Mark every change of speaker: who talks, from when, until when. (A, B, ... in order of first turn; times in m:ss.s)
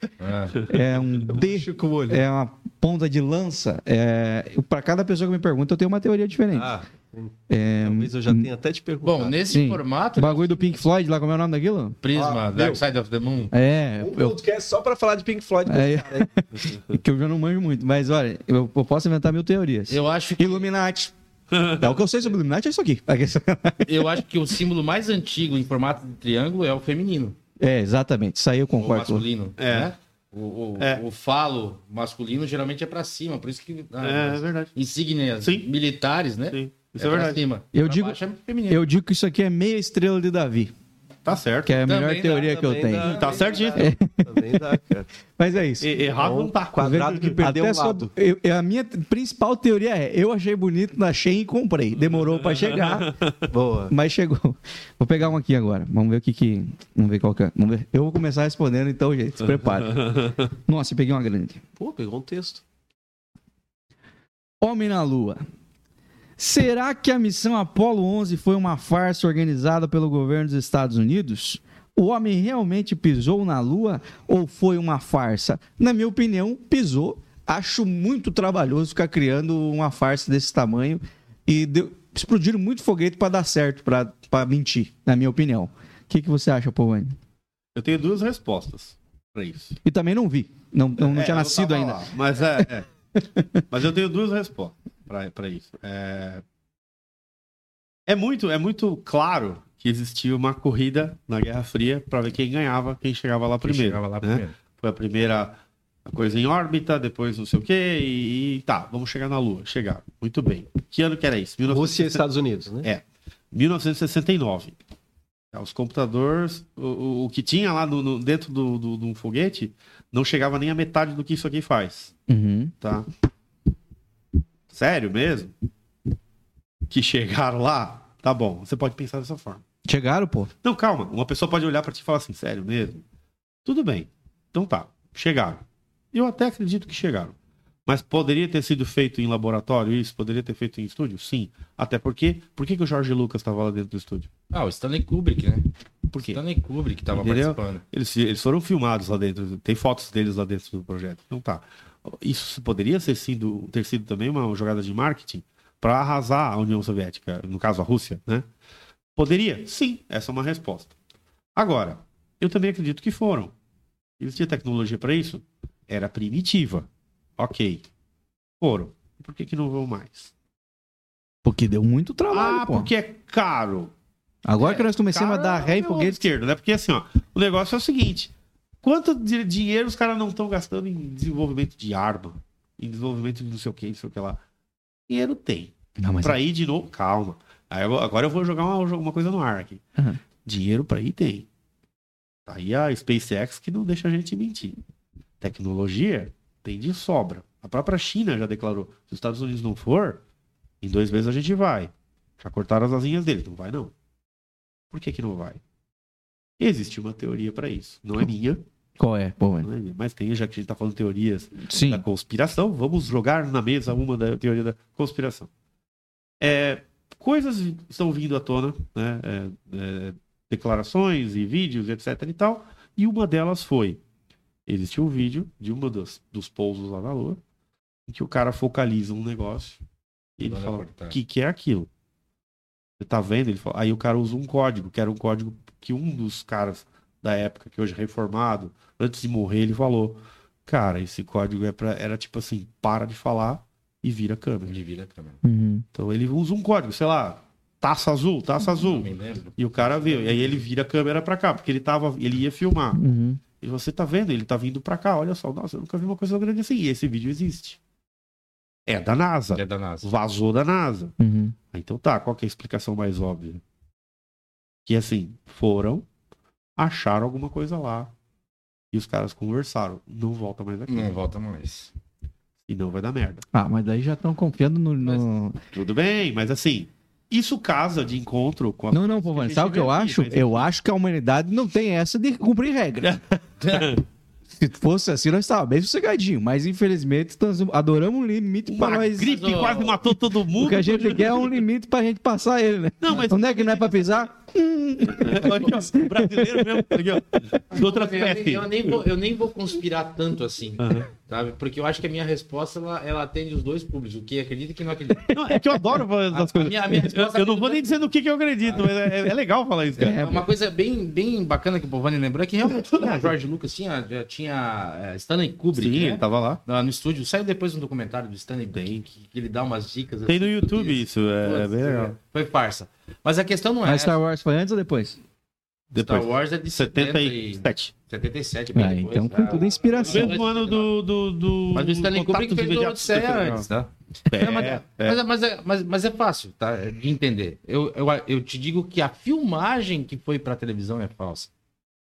0:00.2-0:00.7 A
0:00.6-0:06.7 B
0:01.3-0:02.2 C
0:06.5-0:09.4 C
0:07.5-0:08.5 B
0:09.0-0:10.8 A
0:09.5-0:12.0 B
0:12.0-0:13.5 A
0:12.1-0:12.8 C
0:13.5-0:14.4 B
0:14.0-0:16.3 C
0:15.6-0:21.1 B
0:19.9-0:20.7 A
0:21.5-0:21.9 D
0:21.7-0:24.1 B
0:23.8-0:27.4 A
0:27.6-0:29.2 B
0:28.8-0:38.8 A
0:29.6-0:29.9 D
0:34.0-0:34.7 D
0:35.4-0:35.7 D
0:36.5-0:37.4 D
0:37.7-0:40.7 B
0:41.2-0:41.8 D
0:41.6-0:43.2 B
0:41.8-0:43.5 A
0:42.4-0:45.1 C
0:43.1-0:43.9 D
0:43.8-0:44.6 B
0:45.4-0:45.9 B
0:45.8-0:47.4 D
0:46.2-0:48.1 C
0:46.8-0:53.2 B
0:53.0-0:53.4 D
0:53.5-0:53.9 C
0:53.9-1:01.6 B
0:59.5-1:00.5 D
1:01.8-1:02.6 C
1:04.6-1:05.4 B
1:06.4-1:27.2 B
1:27.7-1:29.8 D
1:29.8-1:32.7 B
1:31.0-1:32.9 D
1:33.4-1:33.6 B
1:33.7-1:36.4 D
1:38.1-1:52.2 D
1:43.6-1:44.5 A
1:51.6-1:52.9 C
1:52.8-1:54.8 D
1:55.5-2:02.1 D
2:02.3-2:02.7 B
2:02.8-2:03.1 D
2:04.7-2:05.5 D
2:06.9-2:09.6 D
2:09.8-2:10.5 B
2:10.6-2:13.0 D
2:13.6-2:24.3 D
2:24.5-2:27.8 A
2:26.1-2:26.4 D
2:27.1-2:38.4 D
2:39.2-2:40.9 D
2:41.5-2:43.5 D
2:44.2-2:47.8 D
2:48.6-2:50.3 D
2:51.4-2:52.9 B
2:52.3-2:53.9 D
2:54.4-2:56.2 B
2:54.6-2:58.3 D
2:58.8-3:04.4 D
3:05.1-3:09.8 D
3:06.0-3:06.4 B
3:10.4-3:11.5 D
3:12.4-3:14.8 D
3:15.4-3:20.2 D
3:20.8-3:23.9 D
3:24.9-3:25.6 D
3:26.6-3:28.6 D
3:29.0-3:29.7 B
3:29.6-3:35.5 D
3:31.7-3:32.0 B
3:36.4-3:44.0 D
3:44.6-3:47.4 D
3:48.1-3:49.8 D
3:50.4-3:51.9 D
3:50.4-3:51.2 A
3:53.0-4:04.8 D
4:04.6-4:05.4 A
4:05.4-4:05.8 B
4:05.9-4:13.0 D
4:08.6-4:10.6 A
4:12.9-4:13.4 B
4:13.6-4:17.8 D
4:18.9-4:21.1 D
4:19.5-4:20.1 A
4:21.2-4:21.6 B
4:21.7-4:23.6 D
4:24.8-4:26.0 D
4:26.8-4:28.1 D
4:28.9-4:31.1 D
4:30.9-4:31.9 A
4:32.6-4:33.4 D
4:33.5-4:35.6 B
4:35.7-4:40.7 D
4:38.9-4:43.2 B
4:43.6-4:43.9 A
4:43.7-4:44.0 D
4:44.5-4:49.4 B
4:48.6-4:51.6 D
4:49.2-4:50.0 A
4:50.6-4:57.1 B
4:53.0-4:54.0 D
4:55.0-4:59.0 D
4:57.7-5:05.4 A
5:00.8-5:01.1 D
5:05.3-5:10.2 D
5:06.3-5:08.0 A
5:08.6-5:08.9 A
5:10.0-5:10.4 B
5:10.0-5:24.2 A
5:12.9-5:13.3 D
5:15.7-5:16.6 D
5:18.7-5:19.0 D
5:20.3-5:22.2 D
5:23.8-5:25.2 B
5:25.9-5:30.9 A
5:25.9-5:27.9 D
5:28.7-5:30.4 B
5:30.1-5:33.7 D
5:31.7-5:41.5 A
5:34.3-5:35.2 D